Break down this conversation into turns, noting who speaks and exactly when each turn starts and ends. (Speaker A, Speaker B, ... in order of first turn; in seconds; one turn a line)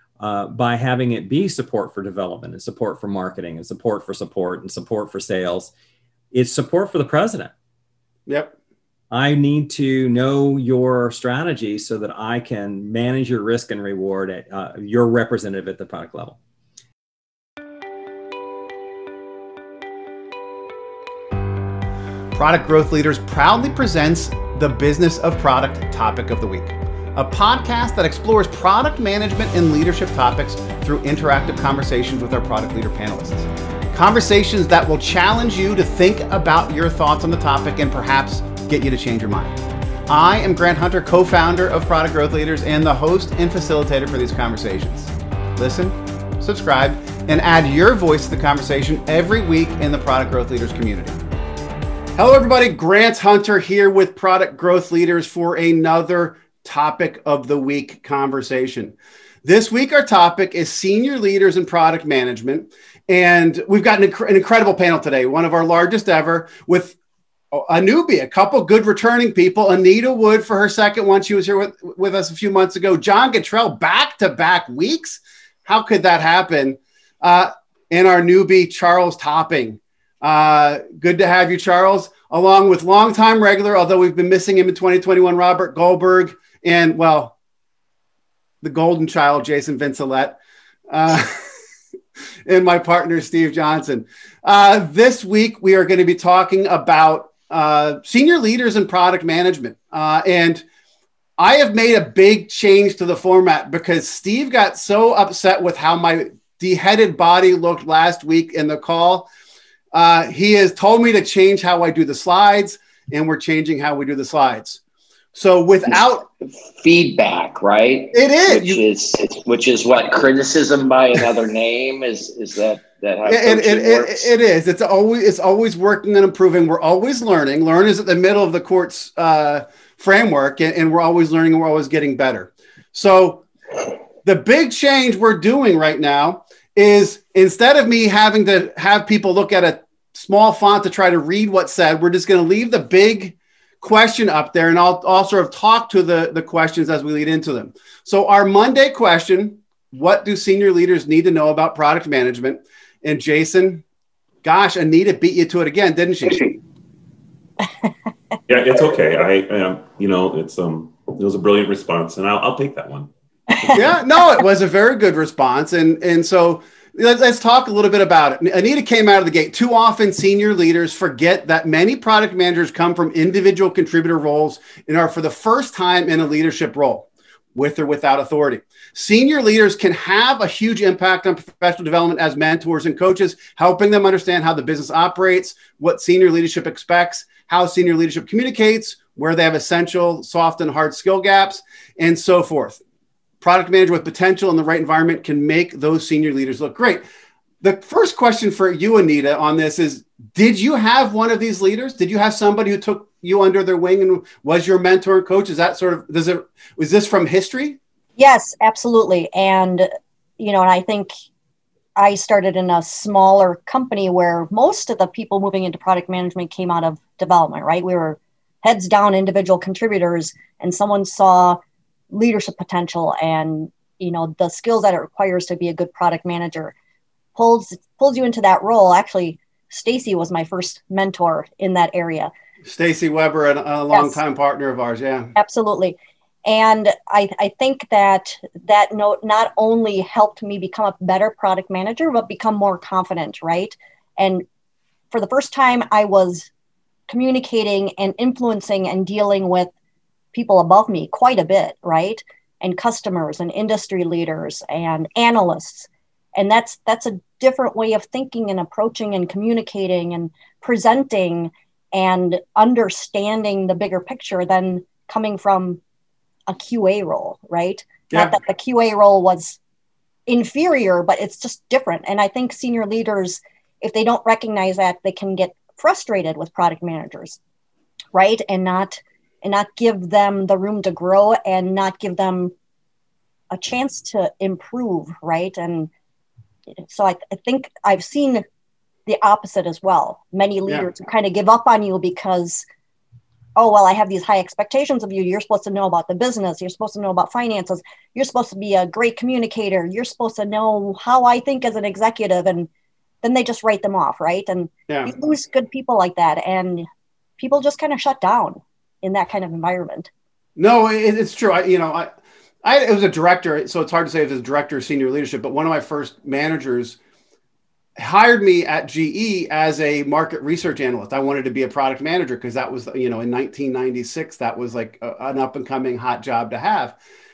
Speaker A: 0.2-5.7
Speaker A: 6.3-7.5
Speaker B: 8.3-8.5
Speaker A: 9.1-16.4
Speaker B: 22.3-39.6
Speaker B: 40.1-51.2
Speaker B: 52.1-67.0
Speaker B: 67.5-87.3
Speaker B: 88.6-90.4
Speaker B: 90.9-91.4
Speaker B: 92.5-100.6
Speaker B: 101.4-109.3
Speaker B: 109.9-114.8
Speaker B: 115.3-116.2
Speaker C: 116.8-124.3
Speaker B: 118.1-118.8
Speaker B: 123.2-133.4
Speaker B: 134.2-153.8
Speaker B: 154.4-156.4
Speaker D: 158.5-163.1
Speaker E: 163.5-163.8
Speaker B: 163.7-192.8
Speaker B: 193.4-197.0
Speaker B: 197.6-207.8
Speaker E: 208.2-211.1
Speaker E: 211.9-221.6
Speaker E: 222.1-226.7
Speaker E: 227.3-232.3
Speaker B: 232.6-235.3
Speaker E: 233.9-234.2
Speaker E: 235.3-244.4
Speaker E: 245.1-246.5
Speaker E: 247.1-249.7
Speaker E: 250.3-265.8
Speaker E: 266.5-269.6
Speaker E: 270.3-277.4
Speaker E: 278.1-282.5
Speaker E: 283.5-285.9
Speaker E: 286.8-288.4
Speaker E: 289.1-292.6
Speaker E: 293.6-302.7
Speaker E: 303.2-306.9
Speaker E: 307.4-310.1
Speaker B: 310.6-312.1
Speaker B: 312.6-317.0
Speaker B: 318.0-326.9